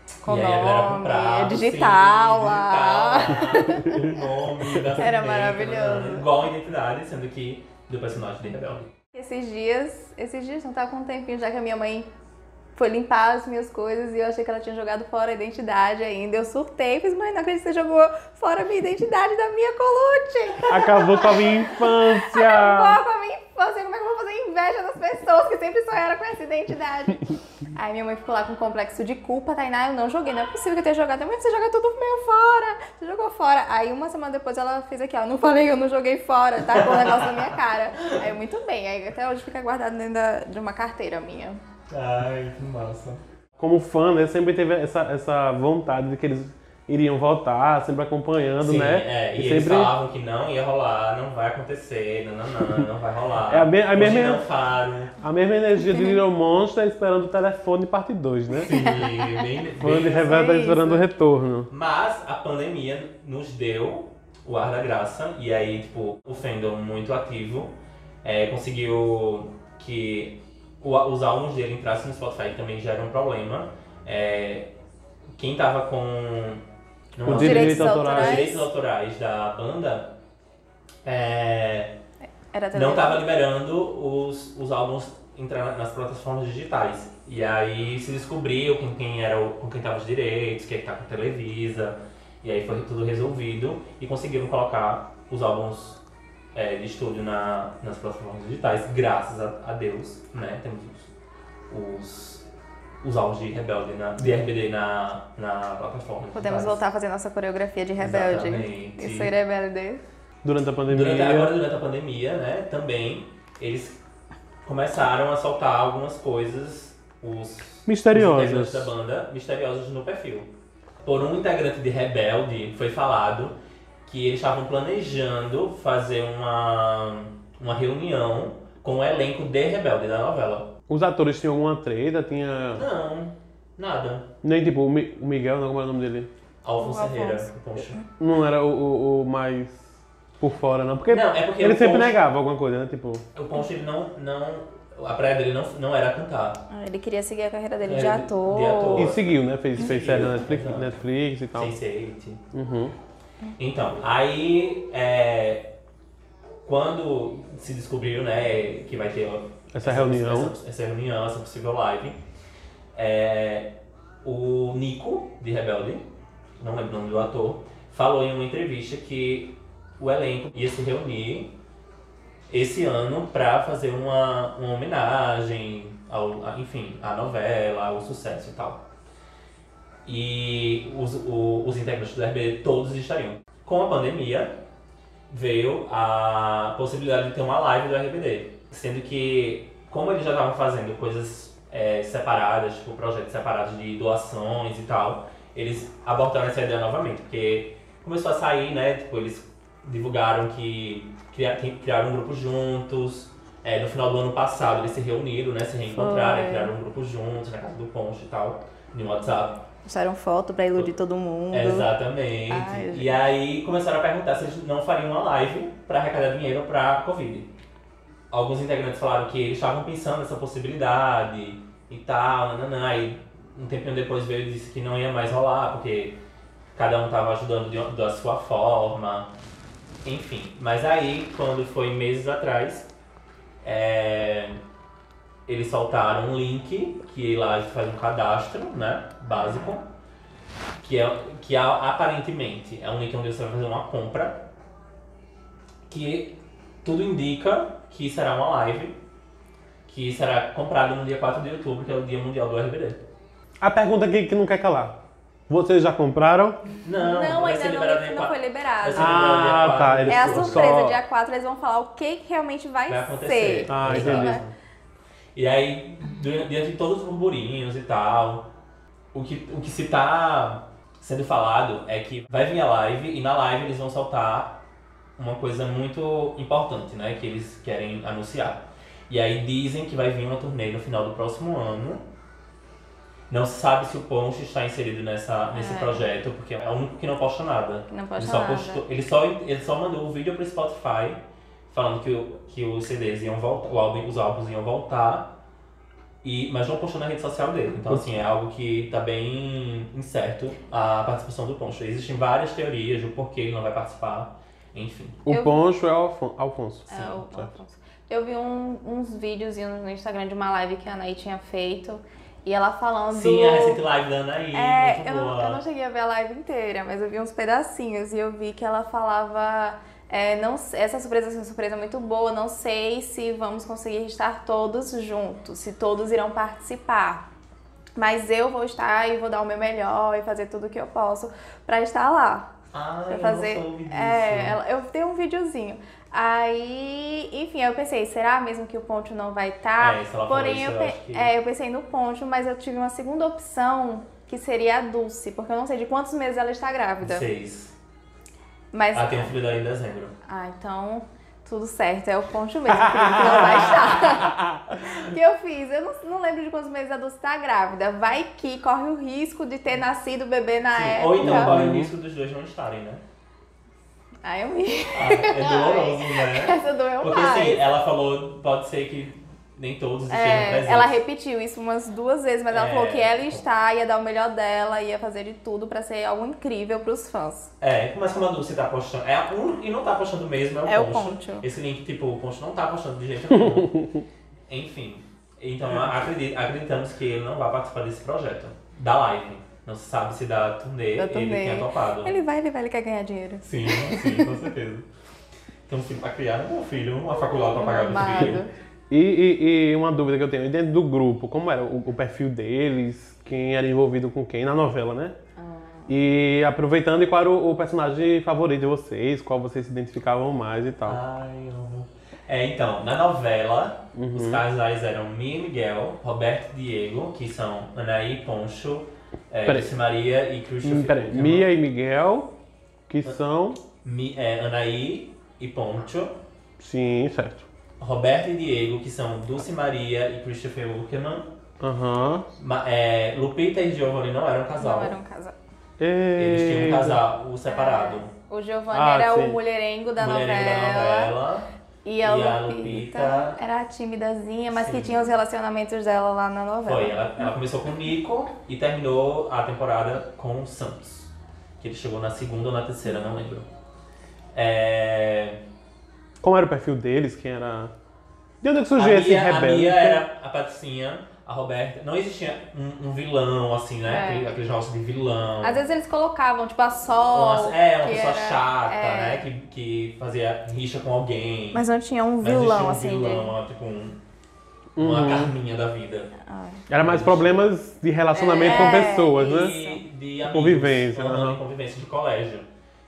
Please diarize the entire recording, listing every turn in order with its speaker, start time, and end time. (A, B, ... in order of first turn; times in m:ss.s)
0:00.2-0:04.2 A
0:00.2-0:08.9 B
0:04.9-0:06.3 A
0:09.1-0:12.1 A
0:12.7-0:41.6 A
0:20.7-0:23.0 C
0:36.6-0:38.2 B
0:41.9-0:43.2 B
0:43.6-0:49.9 C
0:48.6-0:55.2 B
0:53.5-0:54.4 C
0:55.2-0:58.7 C
0:58.6-1:00.5 B
0:58.7-0:59.3 A
0:59.8-1:01.7 C
1:00.2-1:01.0 A
1:01.7-1:14.7 B
1:15.4-1:16.6 B
1:17.1-1:20.1 B
1:17.2-1:18.5 C
1:17.3-1:18.7 A
1:21.0-1:22.0 B
1:22.5-1:23.2 A
1:22.7-1:36.0 B
1:36.5-1:41.1 B
1:41.7-1:42.4 B
1:43.0-1:46.8 B
1:46.3-1:50.0 A
1:48.0-1:49.3 B
1:50.4-1:51.6 C
1:50.9-1:54.0 B
1:54.6-2:00.5 B
1:57.8-1:58.9 C
2:01.0-2:10.7 B
2:10.9-2:12.8 C
2:12.8-2:14.3 B
2:14.4-2:16.3 C
2:16.6-2:18.0 B
2:16.8-2:18.0 A
2:18.2-2:23.2 C
2:21.1-2:22.2 B
2:23.3-2:26.6 B
2:26.7-2:29.1 A
2:27.8-2:30.9 B
2:29.0-2:31.8 C
2:31.5-2:32.4 B
2:32.5-2:32.9 C
2:33.6-2:35.7 B
2:36.6-2:42.2 B
2:39.7-2:40.5 C
2:42.9-2:51.5 B
2:52.5-2:58.8 B
3:00.0-3:04.6 B
3:05.3-3:29.6 B
3:25.9-3:26.7 A
3:29.8-3:31.9 A
3:31.5-3:37.5 B
3:32.5-3:33.2 A
3:38.3-3:46.2 B
3:46.7-3:49.3 B
3:50.0-3:52.9 B
3:53.6-3:54.6 B
3:55.4-3:59.9 B
3:59.3-3:59.7 A
4:00.8-4:04.4 B
4:05.9-4:09.0 B
4:09.9-4:13.0 B
4:13.6-4:16.6 C
4:16.8-4:20.8 B
4:17.0-4:19.2 A
4:18.9-4:21.0 C
4:20.1-4:24.4 A
4:22.9-4:24.5 B
4:23.7-4:24.4 C
4:25.3-4:28.5 B
4:29.1-4:34.6 B
4:35.2-4:42.0 B
4:43.3-4:55.3 B
4:45.5-4:46.0 A
4:47.9-4:48.8 A
4:56.2-5:05.2 B
5:05.2-5:07.5 C
5:05.3-5:05.6 A
5:06.9-5:13.8 A
5:13.1-5:15.6 B
5:14.5-5:27.2 A
5:28.0-5:32.5 A
5:32.7-5:34.6 B
5:33.1-5:47.2 A
5:39.8-5:41.3 B
5:47.0-5:47.7 B
5:48.7-5:49.3 A
5:48.9-5:50.1 B
5:50.2-6:01.6 A
5:53.0-5:53.4 C
5:53.0-5:54.4 B
6:00.7-6:03.0 B
6:01.2-6:01.9 C
6:04.2-6:07.6 A
6:04.9-6:11.0 B
6:10.1-6:17.5 A
6:12.5-6:13.4 B
6:17.6-6:23.8 B
6:20.6-6:21.5 A
6:23.4-6:23.6 C
6:24.5-6:32.1 B
6:31.0-6:34.2 A
6:33.4-6:34.8 B
6:35.7-6:38.4 B
6:37.5-6:38.5 A
6:38.9-6:45.2 C
6:45.4-6:45.9 A
6:45.9-6:51.0 C
6:50.8-7:01.5 B
6:53.9-6:54.4 C
6:59.4-6:59.7 C
7:00.6-7:02.3 C
7:02.9-7:03.6 C
7:03.8-7:06.2 B
7:06.6-7:07.5 C
7:07.8-7:11.3 B
7:11.6-7:12.3 C
7:12.4-7:15.0 B
7:14.6-7:15.4 A
7:15.8-7:17.0 C
7:16.2-7:18.1 B
7:17.5-7:21.1 A
7:18.7-7:19.4 C
7:20.0-7:21.5 B
7:21.8-7:27.0 A
7:22.0-7:23.4 B
7:24.5-7:25.0 B
7:26.6-7:33.4 B
7:34.3-7:35.4 B
7:36.2-7:37.7 C
7:38.4-7:40.0 C
7:38.7-7:45.6 B
7:43.9-7:44.3 A
7:45.4-7:49.2 A
7:47.1-7:51.6 B
7:51.5-7:53.3 A
7:52.2-7:54.0 B
7:54.8-7:55.3 C
7:54.8-7:56.1 B
7:56.2-7:56.6 A
7:56.7-7:59.5 C
7:56.7-7:57.4 B
7:58.1-7:59.8 A
7:58.4-8:02.5 B
8:00.3-8:01.4 C